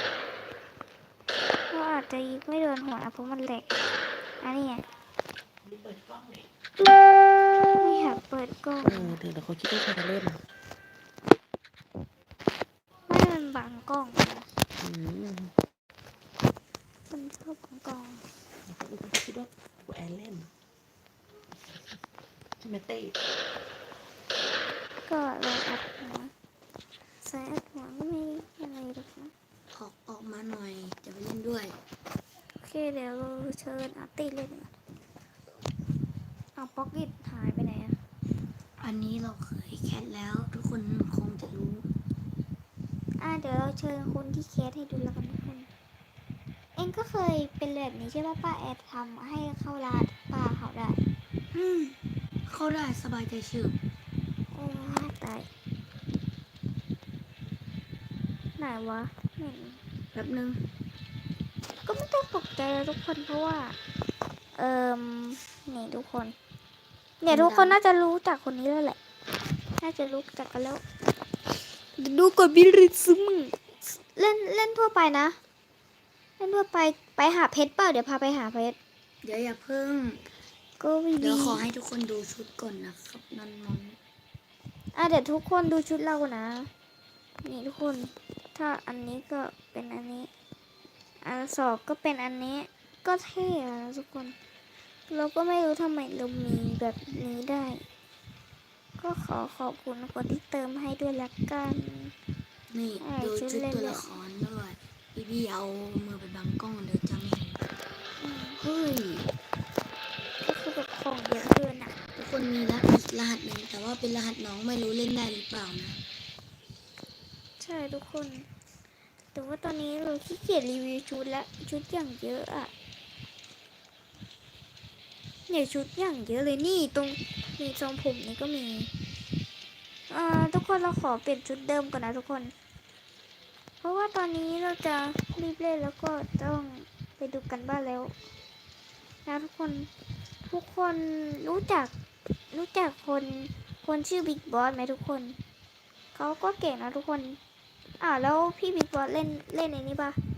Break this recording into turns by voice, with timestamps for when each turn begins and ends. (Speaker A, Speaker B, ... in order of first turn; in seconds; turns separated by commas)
Speaker A: 1.7-3.7, Speaker A: 4.4-4.8, Speaker B: 5.6-6.5, Speaker A: 7.8-9.2, Speaker B: 8.8-10.4, Speaker A: 13.1-14.5, Speaker B: 14.8-15.5, Speaker A: 17.1-18.2, Speaker B: 18.7-20.5, Speaker B: 22.6-23.1, Speaker A: 25.1-26.3, Speaker A: 27.2-29.3, Speaker C: 29.7-31.7, Speaker A: 32.6-34.7, Speaker A: 36.6-38.0, Speaker C: 38.8-41.9, Speaker A: 43.2-45.7, Speaker A: 46.8-51.0, Speaker C: 51.5-51.9, Speaker C: 52.5-53.8, Speaker A: 54.5-55.5, Speaker A: 58.6-59.8, Speaker C: 60.1-60.6, Speaker A: 61.9-63.8, Speaker A: 64.6-66.3, Speaker A: 67.2-69.0, Speaker C: 67.3-67.8, Speaker A: 69.8-70.8, Speaker A: 72.0-75.4, Speaker A: 76.4-78.8, Speaker C: 79.2-80.2, Speaker A: 80.8-81.6, Speaker C: 81.2-84.0, Speaker A: 84.9-86.7, Speaker A: 87.4-90.3, Speaker A: 91.2-94.3, Speaker A: 95.1-97.8, Speaker A: 99.0-102.1, Speaker C: 102.7-107.6, Speaker A: 103.0-104.0, Speaker A: 108.2-108.6, Speaker C: 108.6-109.3, Speaker A: 110.4-112.0, Speaker C: 112.2-116.0, Speaker A: 117.6-118.5, Speaker A: 119.3-122.7, Speaker A: 125.5-128.9, Speaker A: 130.1-132.5, Speaker A: 133.8-138.1, Speaker A: 139.3-139.9, Speaker A: 140.5-141.9, Speaker A: 142.5-145.4, Speaker A: 146.2-147.4, Speaker A: 148.0-150.2